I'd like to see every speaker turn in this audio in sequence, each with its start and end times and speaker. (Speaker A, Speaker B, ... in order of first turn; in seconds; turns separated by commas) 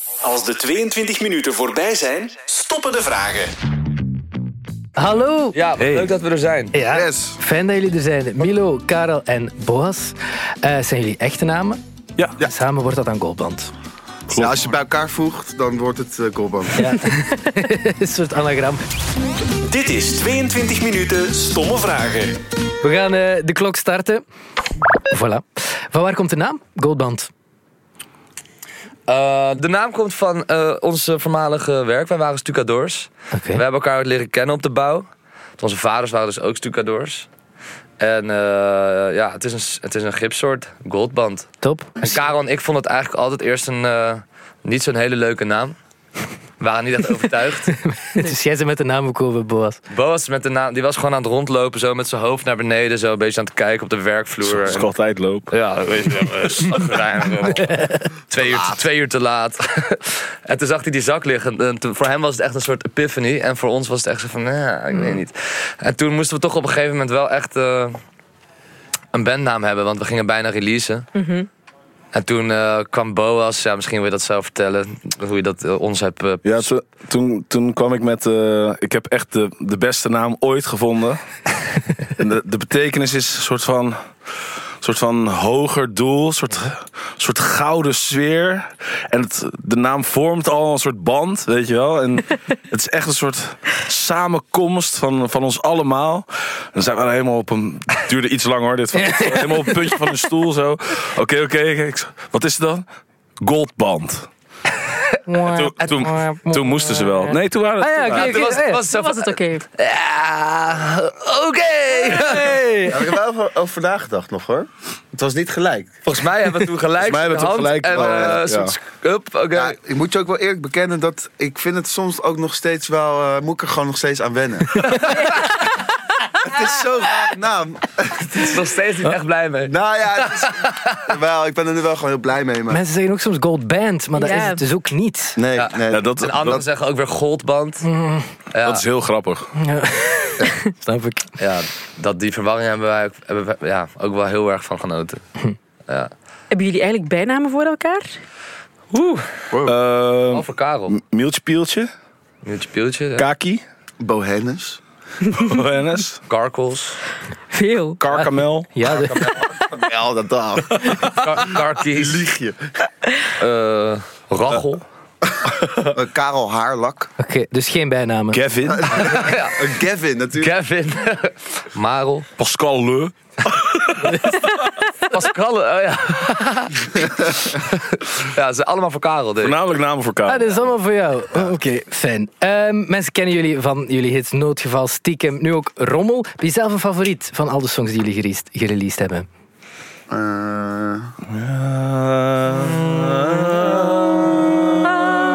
Speaker A: 0.2-3.5, Speaker B: 5.0-6.0, Speaker C: 5.5-6.7, Speaker B: 6.7-11.8, Speaker D: 6.8-7.4, Speaker B: 12.4-13.7, Speaker E: 14.3-14.7, Speaker D: 14.3-16.9, Speaker B: 16.8-18.8, Speaker A: 19.6-22.4, Speaker B: 22.8-24.2, Speaker B: 25.1-27.3, Speaker C: 29.1-35.0, Speaker B: 33.3-33.6, Speaker C: 35.6-37.3, Speaker C: 38.0-45.8, Speaker B: 41.6-42.1, Speaker C: 46.6-47.8, Speaker B: 47.8-49.8, Speaker C: 49.9-54.9, Speaker E: 54.4-55.5, Speaker C: 55.5-68.0, Speaker C: 69.1-71.0, Speaker F: 71.1-71.5, Speaker C: 72.1-76.7, Speaker E: 76.4-81.2, Speaker E: 82.1-84.1, Speaker E: 84.8-102.8, Speaker B: 98.9-99.9, Speaker E: 103.4-104.3, Speaker B: 105.2-108.8, Speaker E: 105.4-108.4, Speaker C: 108.1-112.6, Speaker F: 108.8-109.6, Speaker B: 112.3-113.0, Speaker D: 112.8-115.9, Speaker C: 116.0-119.8, Speaker D: 117.0-118.7, Speaker E: 117.6-118.6, Speaker D: 119.5-125.2, Speaker D: 126.4-128.7, Speaker C: 128.3-131.1, Speaker D: 129.7-132.8, Speaker B: 132.7-135.4, Speaker F: 134.2-134.6, Speaker D: 135.3-136.6, Speaker C: 135.6-137.9, Speaker E: 135.9-136.6, Speaker B: 137.8-138.3, Speaker C: 138.5-138.8, Speaker E: 138.6-139.5, Speaker B: 139.6-141.3, Speaker C: 141.4-145.2, Speaker F: 146.5-148.2, Speaker C: 148.9-149.3, Speaker D: 149.5-149.8, Speaker E: 149.6-151.9, Speaker C: 150.3-151.0, Speaker C: 152.4-153.3, Speaker E: 153.2-153.6, Speaker D: 154.0-154.8, Speaker E: 155.3-156.2, Speaker C: 156.3-157.0, Speaker F: 157.5-158.0, Speaker E: 158.0-158.7, Speaker B: 158.1-159.3, Speaker D: 159.2-162.6, Speaker C: 161.0-162.2, Speaker C: 163.4-164.8, Speaker D: 165.8-167.1, Speaker B: 167.2-168.4, Speaker E: 168.3-169.1, Speaker D: 168.7-170.5, Speaker C: 169.0-169.7, Speaker C: 170.4-172.3, Speaker E: 172.4-174.4, Speaker C: 175.1-179.6, Speaker E: 179.4-180.6, Speaker B: 180.2-189.3, Speaker D: 190.1-191.1, Speaker E: 191.3-194.3